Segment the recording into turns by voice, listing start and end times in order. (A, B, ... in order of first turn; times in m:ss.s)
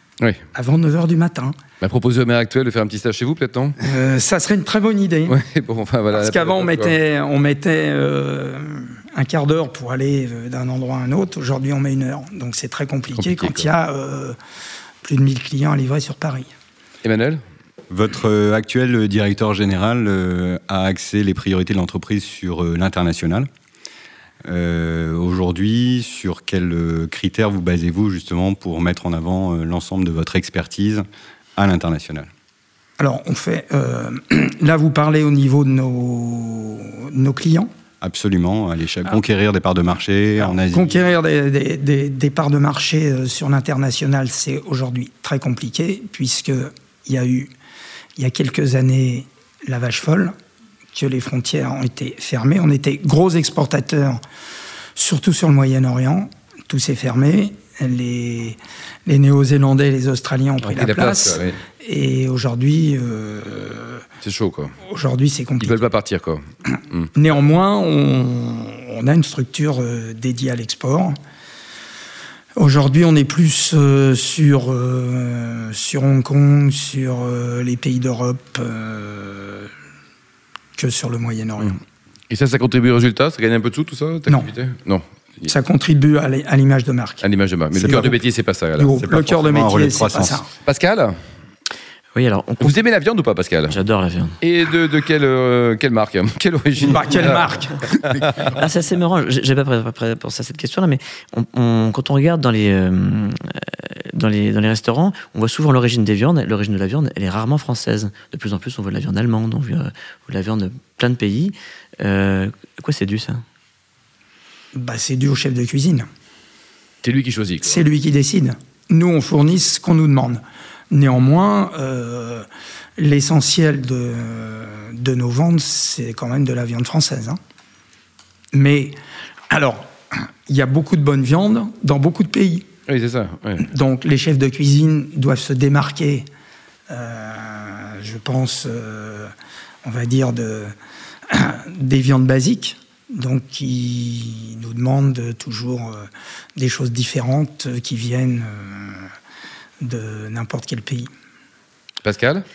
0:00.5-0:01.6 A
0:01.8-0:03.8 B
0:03.8-0:05.4 A
0:05.3-0:07.0 B
0:06.1-0:14.4 A
0:13.1-0:13.7 B
0:15.0-0:16.5 A
0:17.0-0:17.4 B
0:17.9-0:23.5 C
0:24.4-0:31.0 C
0:31.6-0:32.3 C
0:33.0-0:37.7 A
0:38.0-0:41.1 C
0:40.4-0:47.5 A
0:48.2-0:50.3 A
0:50.9-0:54.2 A
0:55.0-1:04.0 A
1:00.6-1:01.6 B
1:04.2-1:04.8 B
1:04.8-1:05.8 A
1:05.6-1:07.1 B
1:07.1-1:11.2 A
1:12.6-1:19.7 A
1:20.8-1:21.8 A
1:22.3-1:25.5 B
1:25.4-1:28.2 A
1:27.2-1:29.0 B
1:28.8-1:30.5 A
1:29.0-1:30.4 C
1:30.6-1:31.1 B
1:32.2-1:32.7 D
1:32.6-1:33.8 B
1:33.7-1:34.3 D
1:34.4-1:38.5 B
1:36.8-1:37.8 A
1:38.5-1:43.3 D
1:43.8-1:53.4 D
1:54.8-1:56.1 A
1:57.0-1:57.8 B
1:57.6-2:02.5 A
2:03.0-2:07.4 A
2:08.5-2:09.0 A
2:09.5-2:12.7 A
2:12.9-2:13.7 B
2:13.6-2:16.2 A
2:16.9-2:19.3 A
2:19.8-2:20.7 A
2:21.3-2:29.1 A
2:29.8-2:31.1 A
2:32.0-2:32.4 B